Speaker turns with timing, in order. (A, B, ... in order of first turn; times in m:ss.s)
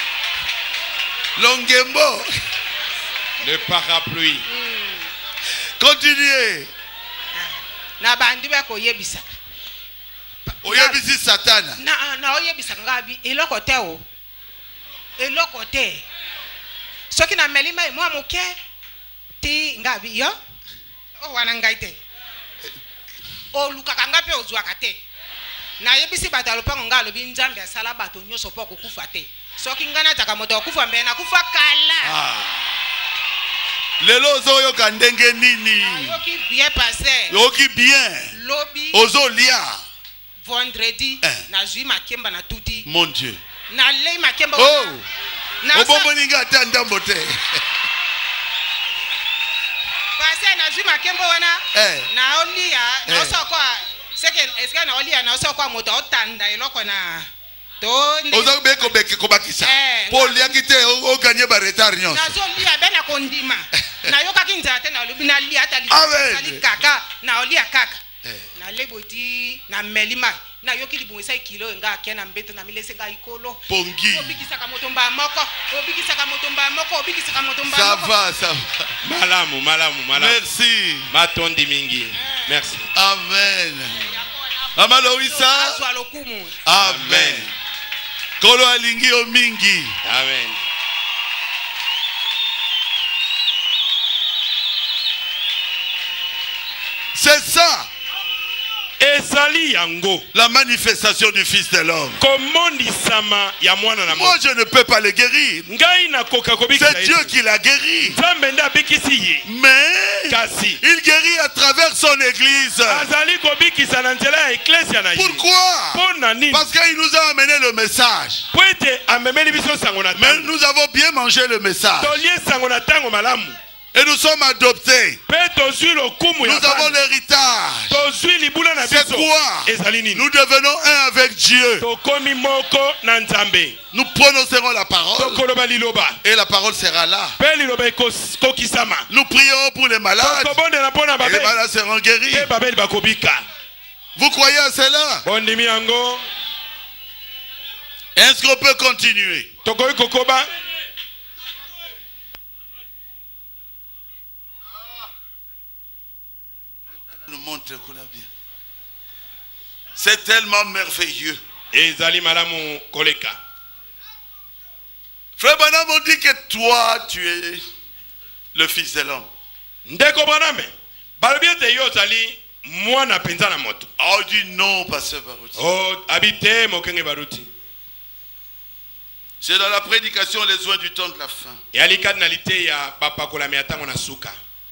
0:01.4-0:02.3 A
0:03.4-0:04.4 B
0:04.5-0:05.1 C
0:05.8-0:06.7 A
0:07.3-0:09.3 C
0:10.5-0:11.0 C
0:10.6-0:11.8 A
0:11.8-0:14.0 C
0:15.2-0:16.0 C
0:17.1-0:18.6 C
0:19.4-0:20.4 C
0:21.2-0:22.0 C
0:23.5-0:25.0 C
0:25.8-0:32.2 C
0:32.0-0:32.7 A
0:34.0-0:36.2 A
0:35.8-0:37.3 C
0:37.3-0:38.3 A
0:38.3-0:39.0 C
0:38.9-0:39.8 A
0:40.4-0:42.9 C
0:42.8-0:43.4 A
0:43.7-0:45.0 C
0:44.6-0:45.0 A
0:45.6-0:46.1 C
0:45.7-0:47.6 A
0:50.2-0:57.3 C
0:51.7-0:52.1 A
0:53.0-0:53.4 A
0:57.8-0:58.6 C
0:58.3-1:02.4 A
0:59.6-1:00.6 C
1:02.1-1:08.0 C
1:05.9-1:06.7 A
1:08.2-1:08.5 A
1:08.5-1:18.1 C
1:13.7-1:14.4 A
1:17.6-1:18.9 A
1:19.0-1:20.4 B
1:20.1-1:21.1 A
1:21.1-1:22.9 B
1:22.2-1:22.5 C
1:22.9-1:24.0 A
1:23.9-1:26.6 C
1:24.7-1:25.8 A
1:26.6-1:27.5 A
1:26.8-1:27.5 B
1:28.4-1:30.0 A
1:30.0-1:30.6 B
1:37.1-1:37.9 A
1:39.0-1:40.3 B
1:40.3-1:42.2 A
1:42.2-1:44.4 B
1:44.1-1:45.7 A
1:45.7-1:47.3 B
1:46.7-1:48.2 A
1:48.0-1:49.5 B
1:49.4-1:53.1 A
1:50.3-1:50.8 B
1:52.9-1:55.4 B
1:55.1-1:58.4 A
1:55.9-1:56.7 B
1:58.5-2:00.5 B
2:00.2-2:02.2 A
2:02.0-2:03.6 B
2:03.9-2:05.2 A
2:05.3-2:07.0 B
2:06.4-2:08.0 A
2:07.9-2:10.2 B
2:08.8-2:11.8 A
2:11.8-2:13.8 B
2:13.9-2:15.4 A
2:15.2-2:16.2 B
2:16.2-2:17.4 A
2:17.4-2:19.1 B
2:19.1-2:20.6 A
2:20.2-2:21.6 B
2:21.2-2:22.5 A
2:22.3-2:23.4 B
2:24.2-2:25.2 A
2:25.2-2:26.2 B
2:28.2-2:29.5 A
2:29.6-2:30.5 B
2:37.1-2:38.3 A
2:40.0-2:41.4 A
2:41.7-2:43.4 B
2:45.4-2:47.6 A
2:48.5-2:49.3 A
2:49.8-2:53.9 B
2:54.0-2:55.6 A
2:55.6-2:57.5 B
2:59.4-3:01.6 A
3:01.7-3:04.4 B